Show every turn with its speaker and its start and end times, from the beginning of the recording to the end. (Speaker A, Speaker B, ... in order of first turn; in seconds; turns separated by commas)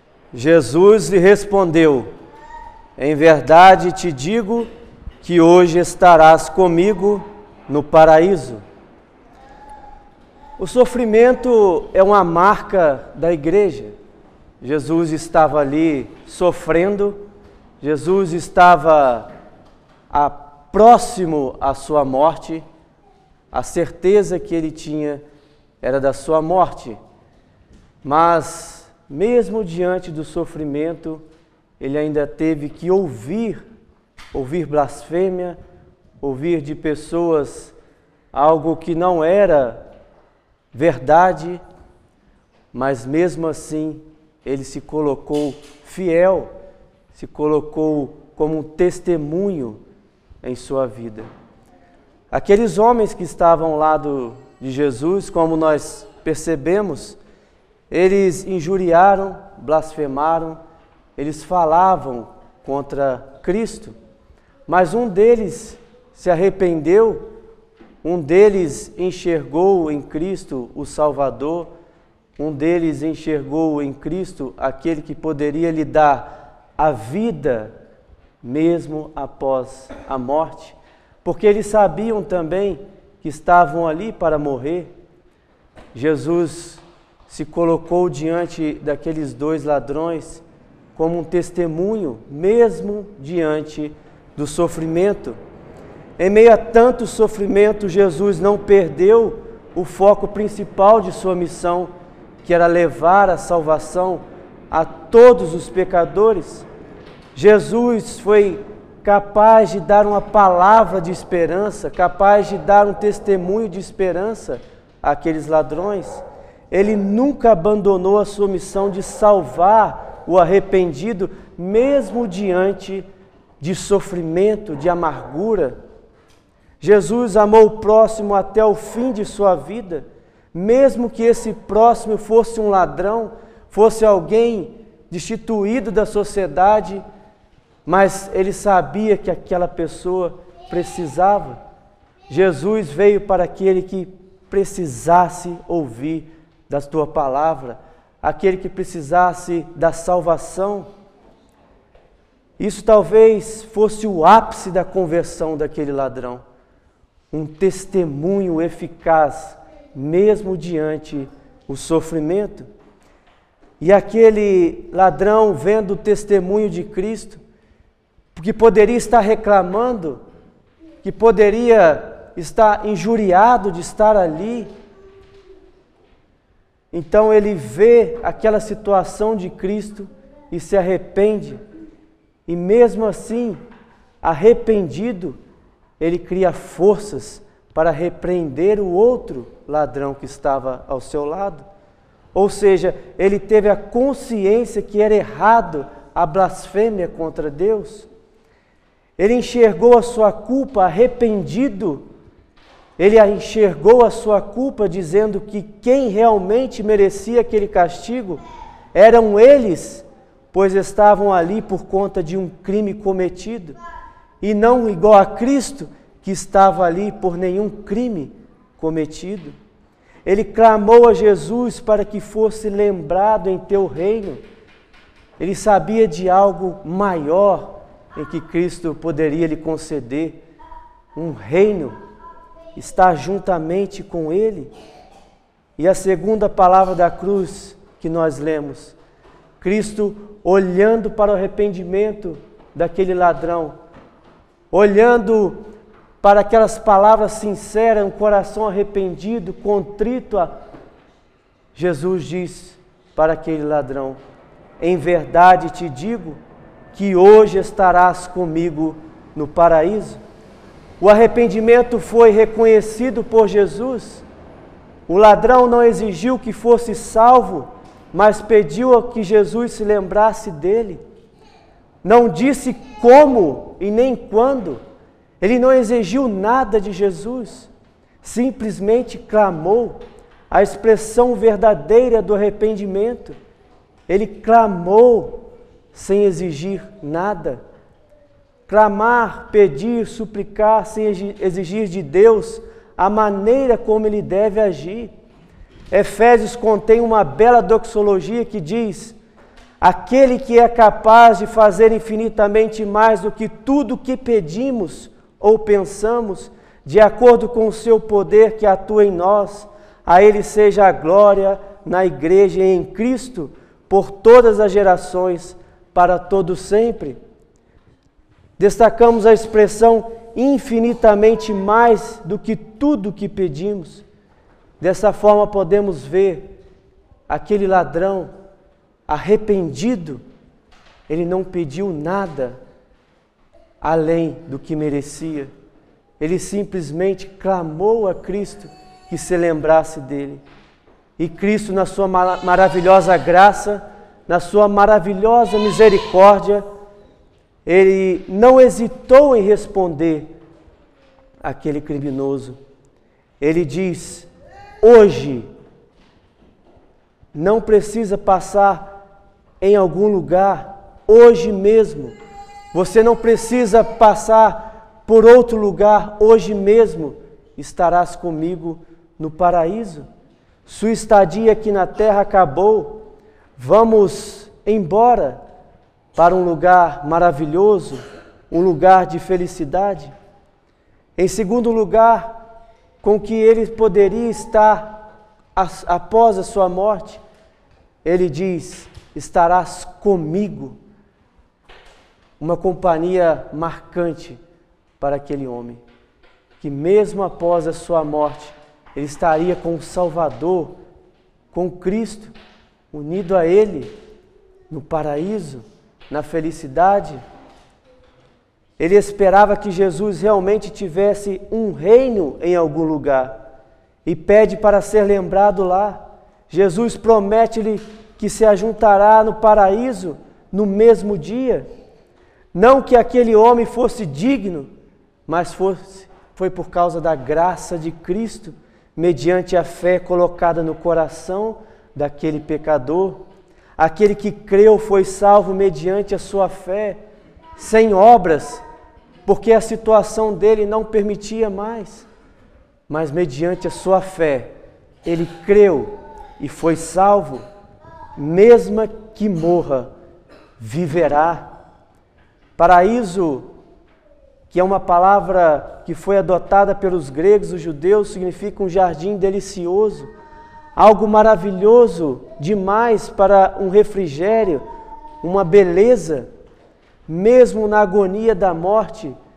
Speaker A: 0.3-2.1, Speaker A: 3.0-4.7, Speaker A: 5.2-8.6, Speaker A: 10.6-13.9, Speaker A: 14.6-17.2, Speaker A: 17.8-19.3, Speaker A: 20.1-22.6, Speaker A: 23.5-25.2, Speaker A: 25.8-27.0, Speaker A: 28.0-31.2, Speaker A: 31.8-33.6, Speaker A: 34.3-35.6, Speaker A: 36.2-37.8, Speaker A: 38.3-39.8, Speaker A: 40.7-41.6, Speaker A: 42.7-46.5, Speaker A: 47.1-49.8, Speaker A: 50.4-51.3, Speaker A: 52.3-57.2, Speaker A: 57.9-60.6, Speaker A: 61.2-64.0, Speaker A: 64.7-67.2, Speaker A: 68.0-71.7, Speaker A: 72.4-77.7, Speaker A: 78.4-84.9, Speaker A: 85.9-90.4, Speaker A: 91.0-95.4, Speaker A: 96.2-101.9, Speaker A: 102.4-106.7, Speaker A: 107.3-123.1, Speaker A: 123.6-125.8, Speaker A: 126.8-137.0, Speaker A: 137.8-141.6, Speaker A: 142.3-150.9, Speaker A: 152.6-156.4, Speaker A: 157.3-162.7, Speaker A: 163.8-167.4, Speaker A: 168.3-170.2, Speaker A: 171.0-174.7, Speaker A: 176.9-181.6, Speaker A: 182.5-183.6, Speaker A: 184.2-185.4, Speaker A: 186.0-191.7, Speaker A: 192.3-198.1, Speaker A: 199.2-202.0, Speaker A: 203.0-208.4, Speaker A: 208.9-213.8, Speaker A: 214.4-219.6, Speaker A: 220.2-224.4, Speaker A: 225.4-230.4, Speaker A: 231.1-232.0, Speaker A: 232.8-234.7, Speaker A: 235.8-239.0, Speaker A: 239.6-243.8, Speaker A: 244.7-245.6, Speaker A: 246.2-250.5, Speaker A: 251.8-254.2, Speaker A: 254.8-256.4, Speaker A: 256.9-260.2, Speaker A: 261.0-264.2, Speaker A: 265.1-271.0, Speaker A: 272.0-274.8, Speaker A: 275.4-277.7, Speaker A: 278.2-280.0, Speaker A: 280.5-283.4, Speaker A: 284.1-287.6, Speaker A: 288.7-295.1, Speaker A: 295.9-299.2, Speaker A: 299.8-317.2, Speaker A: 318.6-324.1, Speaker A: 324.8-326.5, Speaker A: 327.3-328.3, Speaker A: 329.1-330.2, Speaker A: 331.1-332.6, Speaker A: 333.8-335.5, Speaker A: 336.2-340.4, Speaker A: 341.2-346.6, Speaker A: 347.6-350.3, Speaker A: 351.4-352.6, Speaker A: 353.4-354.3, Speaker A: 354.8-355.5, Speaker A: 357.3-358.9, Speaker A: 359.6-362.2, Speaker A: 362.7-370.1, Speaker A: 370.7-373.0, Speaker A: 373.6-375.4, Speaker A: 376.1-380.1, Speaker A: 381.2-382.4, Speaker A: 383.0-385.0, Speaker A: 385.6-387.2, Speaker A: 388.0-390.8, Speaker A: 392.4-394.4, Speaker A: 395.0-395.8, Speaker A: 396.6-400.8, Speaker A: 401.5-402.3, Speaker A: 402.9-403.9, Speaker A: 404.7-407.2, Speaker A: 408.8-413.4, Speaker A: 414.1-421.7, Speaker A: 422.5-424.7, Speaker A: 425.3-433.2, Speaker A: 433.8-437.0, Speaker A: 437.6-438.6, Speaker A: 439.3-442.1, Speaker A: 442.9-444.5, Speaker A: 445.0-447.4, Speaker A: 448.2-449.9, Speaker A: 450.6-451.5, Speaker A: 452.6-453.5, Speaker A: 454.5-460.1, Speaker A: 460.8-464.6, Speaker A: 465.2-466.3, Speaker A: 467.1-469.2